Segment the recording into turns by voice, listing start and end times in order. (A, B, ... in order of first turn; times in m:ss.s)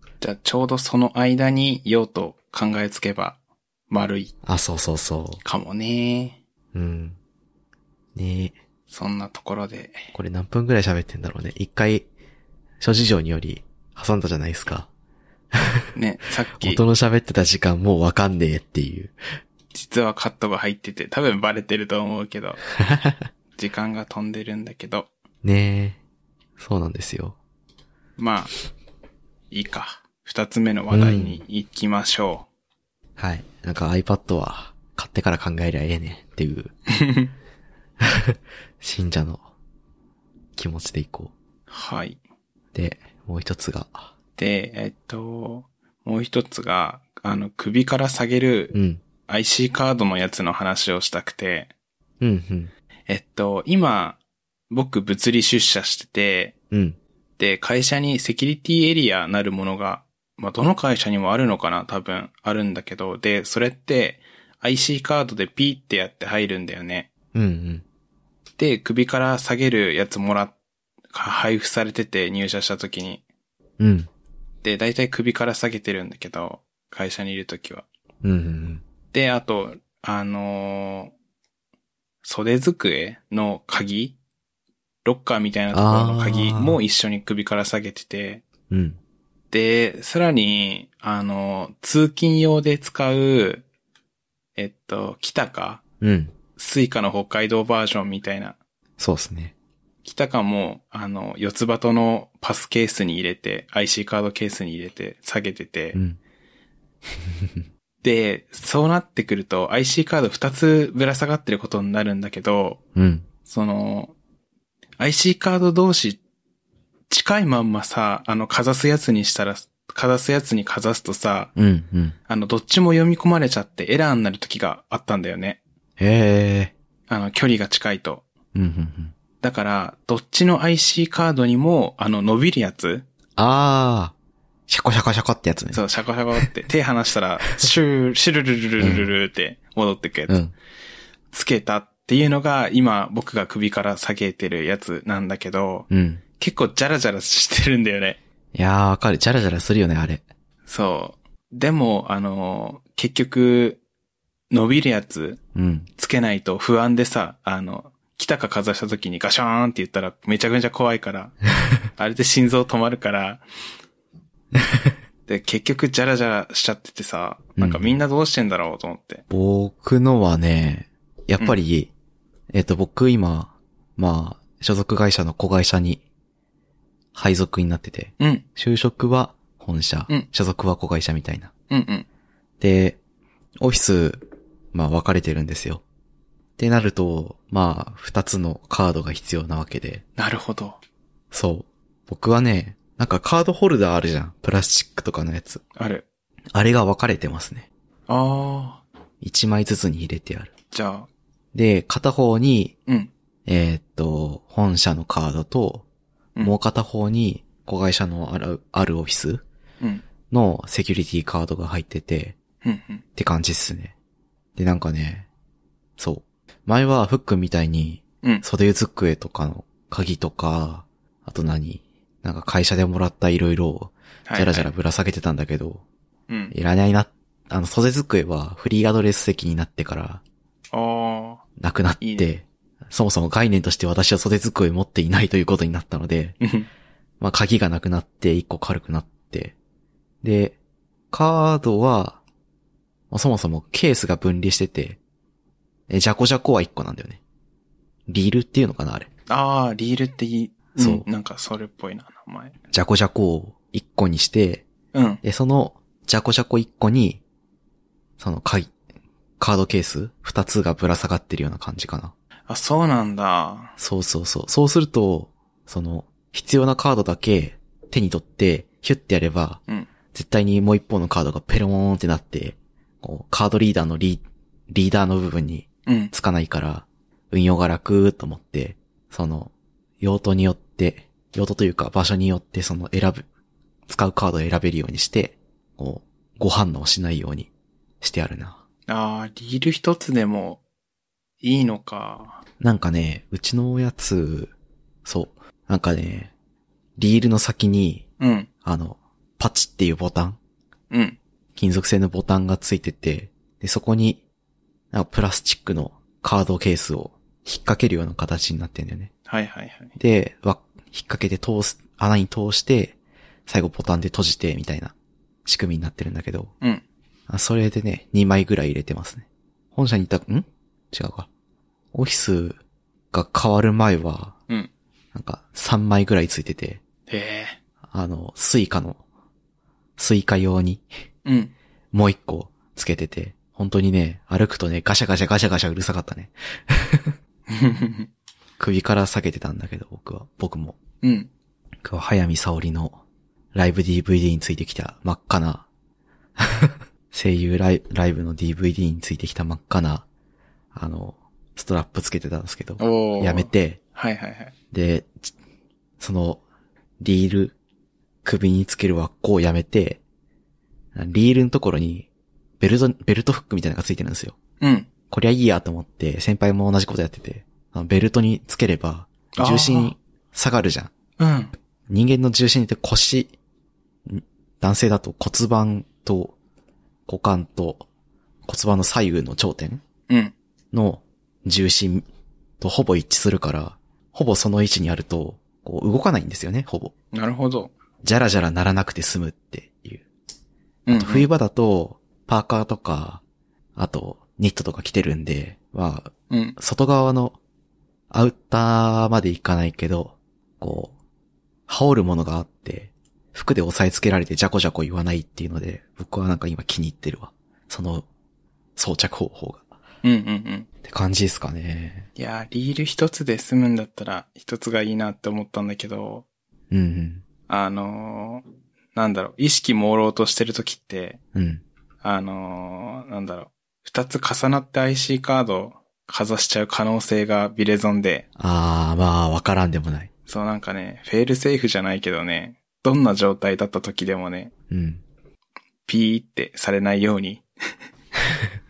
0:00.2-0:03.4 A
0:03.9-0:04.3 A
0:04.4-0:05.4 B
0:05.4-0:06.4 A
0:06.7-0:07.2 B
0:08.2-0:08.6 B
0:08.9-0:10.1 A
0:10.1-0:12.1 B
0:12.8-0:14.9 B
0:16.0-0:16.8 A
0:16.6-0:19.1 B
0:19.7-0:22.6 A
0:22.8-0:23.2 B
0:23.6-0:25.1 A
0:25.4-0:26.0 B
0:26.6-0:27.4 B
0:28.2-0:28.5 A
0:29.5-0:32.5 A
0:30.9-0:31.4 B
0:33.2-0:36.7 B
0:37.0-0:37.3 A
0:38.0-0:39.4 B
0:40.6-0:41.3 B
0:41.7-0:42.2 A
0:42.7-0:44.1 B
0:44.4-0:48.7 A
0:48.7-0:49.0 B
0:49.3-0:51.7 A
0:52.2-0:52.7 B
0:53.1-0:54.2 A
0:54.7-0:56.5 A
0:56.7-0:57.0 B
0:57.4-1:07.1 A
1:07.3-1:07.8 B
1:08.6-1:10.5 A
1:11.1-1:13.2 A
1:13.8-1:14.1 B
1:14.6-1:17.9 A
1:18.2-1:18.8 B
1:19.1-1:21.1 A
1:22.2-1:24.2 A
1:25.0-1:28.4 A
1:25.7-1:26.8 B
1:28.7-1:29.0 B
1:29.5-1:33.6 A
1:34.6-1:35.8 A
1:36.0-1:36.3 B
1:36.6-1:38.6 A
1:39.0-1:39.5 B
1:40.0-1:46.0 A
1:47.3-1:47.6 B
1:48.0-1:52.8 A
1:53.0-1:53.2 B
1:53.5-1:54.2 A
1:55.0-1:56.2 A
1:57.1-2:01.5 A
2:01.6-2:02.2 B
2:02.3-2:05.6 A
2:06.0-2:06.7 B
2:07.1-2:08.2 A
2:08.5-2:09.1 B
2:09.4-2:13.0 A
2:13.4-2:14.1 B
2:14.7-2:15.8 B
2:15.7-2:20.4 A
2:18.8-2:19.1 B
2:20.3-2:20.5 B
2:21.3-2:25.9 A
2:25.9-2:26.2 B
2:26.4-2:28.2 A
2:28.6-2:30.2 B
2:30.7-2:33.8 A
2:34.5-2:35.4 A
2:35.6-2:35.9 B
2:36.0-2:41.4 A
2:42.0-2:43.4 A
2:45.3-2:49.2 A
2:47.6-2:47.9 B
2:49.3-2:51.9 B
2:52.5-2:56.0 B
2:57.1-3:01.5 B
2:58.2-2:58.4 A
3:01.7-3:02.1 A
3:02.6-3:03.0 B
3:03.6-3:05.8 B
3:06.6-3:10.0 B
3:10.2-3:10.8 A
3:11.3-3:15.6 B
3:15.8-3:16.0 A
3:16.5-3:17.7 B
3:18.1-3:18.8 A
3:19.2-3:20.5 B
3:20.7-3:21.1 A
3:21.5-3:22.8 B
3:23.5-3:25.8 B
3:26.4-3:29.4 B
3:30.3-3:32.4 B
3:32.6-3:33.0 A
3:33.2-3:33.9 B
3:34.6-3:35.3 B
3:36.0-3:45.8 B
3:44.3-3:44.7 A
3:46.5-3:50.2 B
3:50.7-3:51.4 A
3:51.6-3:56.4 B
3:52.0-3:52.3 A
3:56.4-3:56.7 A
3:57.2-3:59.6 B
4:00.2-4:00.6 B
4:01.1-4:02.2 B
4:03.1-4:05.0 B
4:05.9-4:07.2 B
4:08.1-4:09.1 B
4:09.3-4:12.6 A
4:10.8-4:11.1 B
4:12.7-4:14.6 B
4:14.9-4:15.2 A
4:15.2-4:17.2 B
4:18.2-4:18.7 B
4:19.4-4:22.1 B
4:22.5-4:23.7 A
4:23.8-4:29.6 B
4:30.1-4:43.3 B
4:35.9-4:36.1 A
4:43.9-4:47.5 B
4:48.0-4:48.6 B
4:48.9-4:50.6 A
4:51.4-4:52.4 A
4:52.6-4:54.5 B
4:55.0-4:56.3 B
4:57.0-4:58.0 B
4:58.2-4:58.5 A
4:58.6-5:00.4 B
5:00.9-5:01.2 A
5:01.6-5:04.2 B
5:04.9-5:09.1 B
5:09.3-5:09.9 A
5:10.0-5:13.0 B
5:13.5-5:14.9 B
5:15.5-5:16.5 B
5:17.3-5:21.3 B
5:21.9-5:22.6 B
5:23.1-5:24.4 B
5:25.1-5:26.8 B
5:27.1-5:27.6 A
5:27.9-5:29.0 B
5:30.0-5:30.8 B
5:31.2-5:31.5 A
5:31.9-5:37.2 B
5:37.5-5:38.1 A
5:38.6-5:40.8 B
5:41.0-5:41.3 A
5:41.8-5:43.0 B
5:43.5-5:45.7 B
5:46.4-5:50.1 B
5:50.7-5:53.8 B
5:52.8-5:54.5 A
5:54.7-5:55.3 B
5:56.0-5:56.4 B
5:57.0-5:57.6 B
5:58.2-6:00.0 B
6:01.0-6:02.1 B
6:02.6-6:04.4 B
6:04.6-6:04.9 A
6:05.1-6:10.9 B
6:09.4-6:10.0 A
6:11.2-6:11.5 A
6:11.9-6:13.3 B
6:14.1-6:16.4 B
6:17.1-6:17.9 B
6:18.5-6:19.8 B
6:20.1-6:20.3 A
6:20.7-6:22.1 B
6:22.6-6:26.9 B
6:27.1-6:27.7 A
6:28.0-6:30.0 B
6:30.9-6:31.3 A
6:30.9-6:33.2 B
6:33.8-6:37.4 B
6:36.3-6:36.6 A
6:38.1-6:40.9 B
6:41.7-6:48.1 B
6:48.8-6:49.6 B
6:50.0-6:50.7 A
6:50.8-6:52.1 B
6:52.2-6:56.2 A
6:56.7-6:57.2 B
6:57.5-7:01.2 A
7:01.3-7:01.6 B
7:02.0-7:08.3 A
7:08.4-7:10.1 B
7:10.3-7:14.5 A
7:14.7-7:15.0 B
7:15.9-7:17.4 A